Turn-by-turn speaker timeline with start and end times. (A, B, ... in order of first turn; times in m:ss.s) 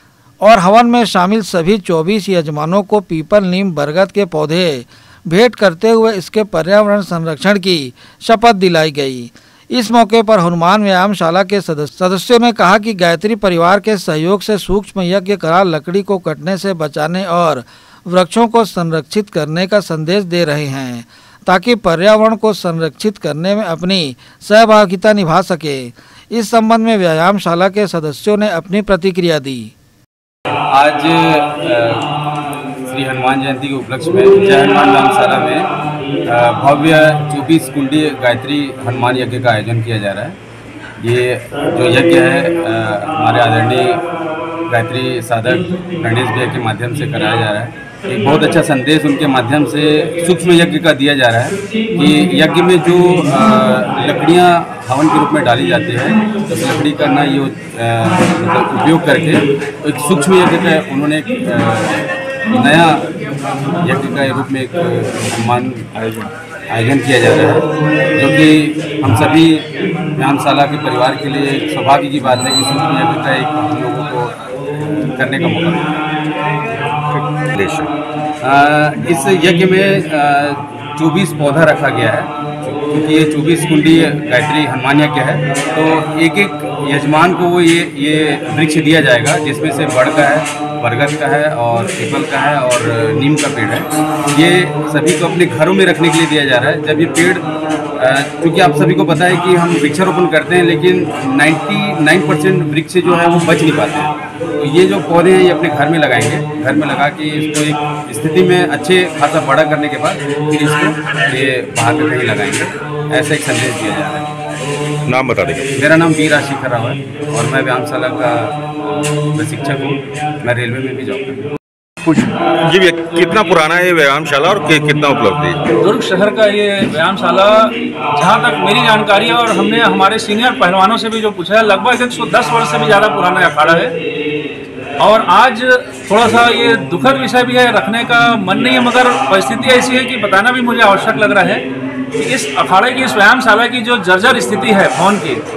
0:00.4-0:29.7 A
0:30.7-0:32.0 B
0:32.9-0:35.7 B
0:36.3-0:40.4 B
0:41.0-0:44.0 B
0:44.7-1:03.1 B
1:03.8-1:09.6 B
1:10.2-1:15.8 B
1:17.1-1:17.9 C
1:18.4-1:37.4 B
1:38.0-1:54.4 B
1:55.1-1:55.7 C
1:55.8-2:01.4 B
2:02.1-2:05.6 C
2:05.8-2:13.9 D
2:15.0-2:21.6 D
2:22.2-2:25.4 D